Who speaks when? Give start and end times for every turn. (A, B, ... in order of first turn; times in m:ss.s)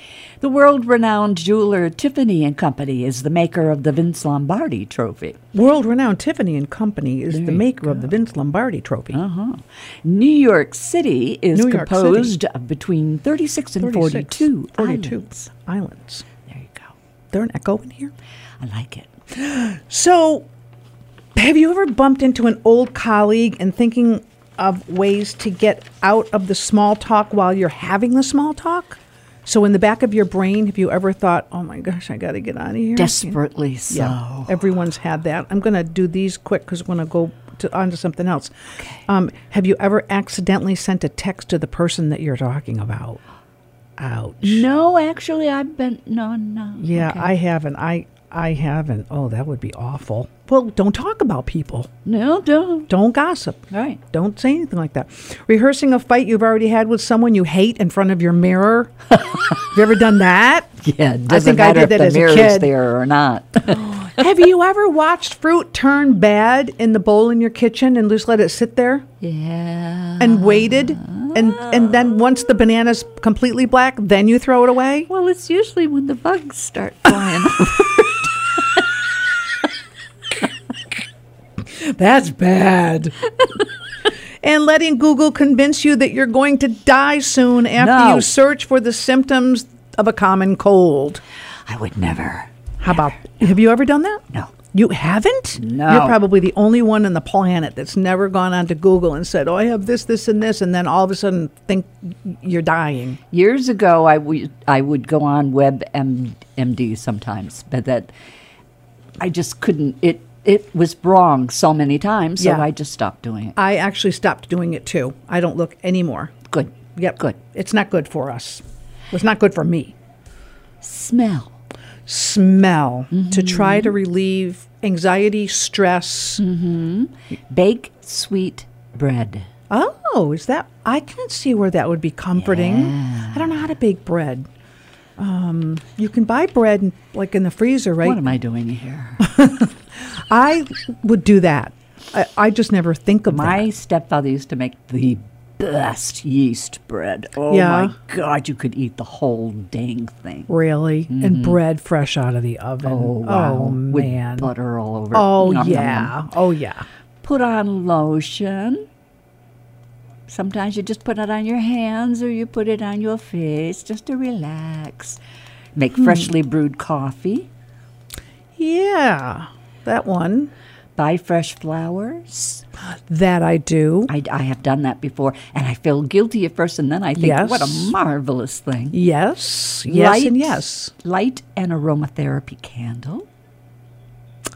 0:00.4-0:05.4 A
0:05.5-0:09.2 B
0:07.3-0:08.1 A
0:09.1-0:15.4 A
0:11.5-0:12.4 B
0:13.8-0:16.2 B
0:16.4-0:16.9 A
0:17.3-0:18.1 B
0:18.6-0:19.1 A
0:19.3-0:20.5 B
0:21.4-0:33.4 B
0:33.0-0:34.6 A
0:33.9-0:38.5 B
0:39.1-0:43.2 B
0:44.0-0:44.6 B
0:44.4-0:47.3 A
0:46.8-0:51.9 B
0:52.0-0:52.9 A
0:52.9-0:58.9 B
0:53.7-0:54.0 A
0:59.6-1:00.8 B
1:00.8-1:04.1 A
1:01.3-1:02.7 B
1:03.8-1:09.0 B
1:09.2-1:12.1 A
1:10.2-1:15.1 B
1:15.1-1:18.3 A
1:21.6-1:23.1 B
1:24.4-1:31.2 B
1:27.8-1:28.3 A
1:31.6-1:33.3 A
1:32.8-1:43.2 B
1:35.6-1:36.2 A
1:43.3-1:48.1 A
1:49.2-1:53.6 A
1:52.4-1:52.7 B
1:53.6-1:56.3 B
1:56.5-1:57.4 A
1:57.0-1:59.9 B
2:00.8-2:01.5 A
2:02.1-2:06.4 B
2:03.1-2:04.0 A
2:06.4-2:09.5 A
2:09.7-2:14.5 B
2:12.4-2:13.7 A
2:15.2-2:18.3 B
2:18.0-2:19.3 A
2:19.2-2:23.6 B
2:23.3-2:30.5 A
2:27.5-2:27.9 B
2:30.5-2:34.5 B
2:31.1-2:31.6 A
2:32.8-2:36.1 A
2:35.1-2:36.8 B
2:37.2-2:38.8 A
2:40.3-2:45.2 A
2:45.8-2:47.5 A
2:46.0-2:46.3 B
2:48.6-2:50.5 B
2:51.0-2:52.6 A
2:53.1-2:54.1 B
2:54.1-2:59.0 A
2:57.2-2:57.9 B
2:58.9-3:00.9 B
2:59.9-3:03.3 A